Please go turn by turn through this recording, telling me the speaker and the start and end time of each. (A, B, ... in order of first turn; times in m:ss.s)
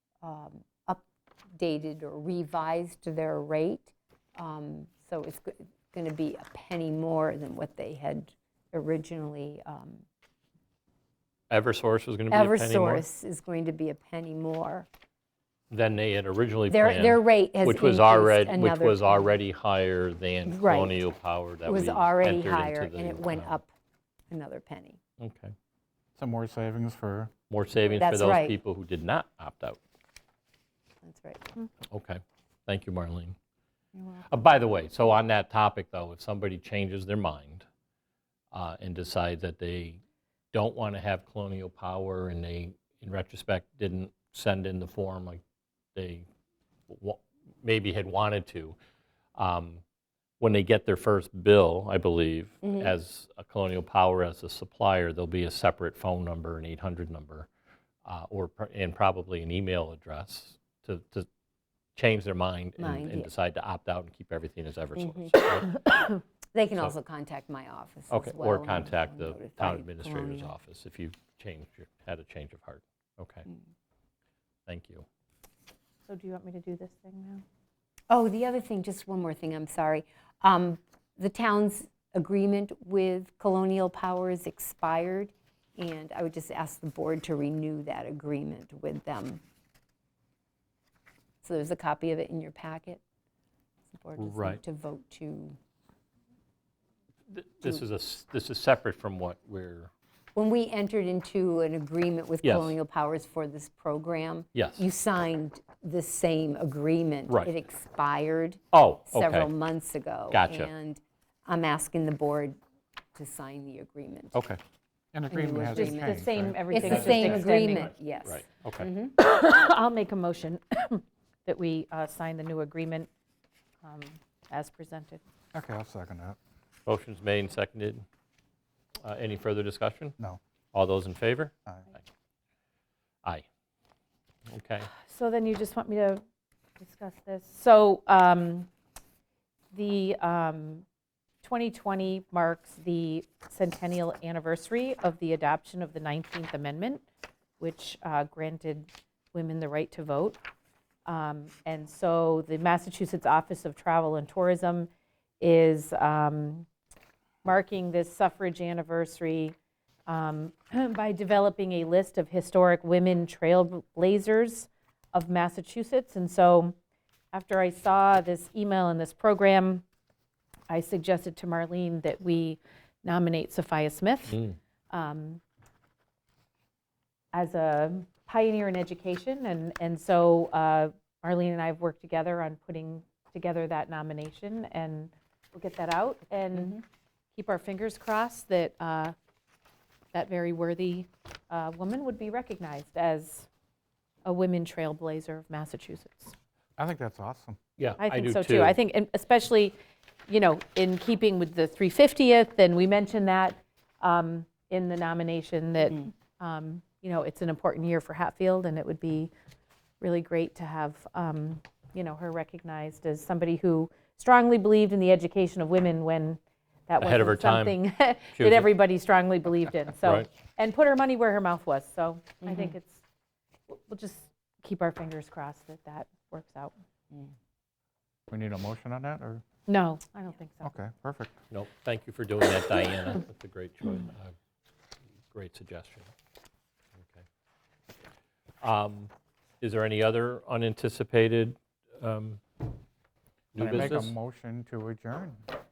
0:00.2-0:01.0 A
0:01.6-0:10.0 A
0:11.5-0:13.0 B
0:12.3-0:14.9 A
0:15.7-0:23.6 B
0:16.7-0:19.4 A
0:20.5-0:21.0 A
0:21.7-0:23.7 A
0:24.3-0:25.0 A
0:25.2-0:25.5 B
0:26.2-0:27.3 C
0:27.5-0:29.8 B
0:28.0-0:28.6 A
0:31.0-0:31.7 A
0:31.9-0:33.4 B
0:34.0-0:34.4 A
0:34.3-0:37.6 B
0:38.5-0:40.0 B
0:40.5-0:45.4 B
0:46.0-0:46.3 B
0:46.9-0:48.8 B
0:49.4-0:49.8 B
0:50.4-0:57.5 B
0:52.6-0:52.9 A
0:58.0-1:01.3 B
1:02.0-1:05.7 B
1:02.8-1:03.3 A
1:05.0-1:05.5 A
1:06.5-1:10.5 A
1:08.1-1:13.4 B
1:14.7-1:15.0 B
1:16.1-1:17.4 D
1:18.1-1:29.4 A
1:31.4-1:33.0 A
1:33.9-1:35.6 A
1:34.2-1:34.6 B
1:37.3-1:39.9 B
1:40.4-1:52.6 A
1:42.4-1:42.8 B
1:44.5-1:44.8 B
1:48.7-1:49.5 B
1:50.3-1:50.7 B
1:53.1-1:54.4 A
1:54.3-1:54.6 C
1:55.1-1:57.1 C
1:55.3-1:59.2 A
1:55.7-1:57.9 D
1:56.8-1:58.9 B
1:59.2-2:03.1 D
2:03.8-2:05.2 D
2:05.5-2:06.4 C
2:06.9-2:08.0 B
2:09.0-2:10.2 B
2:10.7-2:12.0 B
2:14.5-2:14.9 B
2:15.0-2:16.2 D
2:16.8-2:18.7 D
2:19.7-2:20.8 D
2:21.4-2:27.1 D
2:27.6-2:30.4 D
2:31.1-2:36.7 D
2:37.4-2:39.6 D
2:40.1-2:46.8 D
2:47.3-2:49.8 D
2:50.7-2:54.4 D
2:54.9-2:55.4 D
2:57.3-3:06.8 D
3:07.4-3:09.1 D
3:10.1-3:13.5 D
3:14.2-3:16.4 D
3:16.8-3:17.6 C
3:17.8-3:18.8 B
3:18.0-3:19.8 D
3:20.3-3:29.3 D
3:30.0-3:43.0 D
3:37.0-3:37.8 B
3:38.4-3:38.7 B
3:40.0-3:40.3 B
3:43.7-3:46.7 D
3:48.3-3:49.4 C
3:49.7-3:50.8 D
3:50.6-3:51.4 C
3:51.5-3:54.3 B
3:55.3-3:56.1 B
3:57.0-3:57.2 B
3:58.6-4:02.4 B
4:03.5-4:04.2 B
4:03.6-4:05.4 C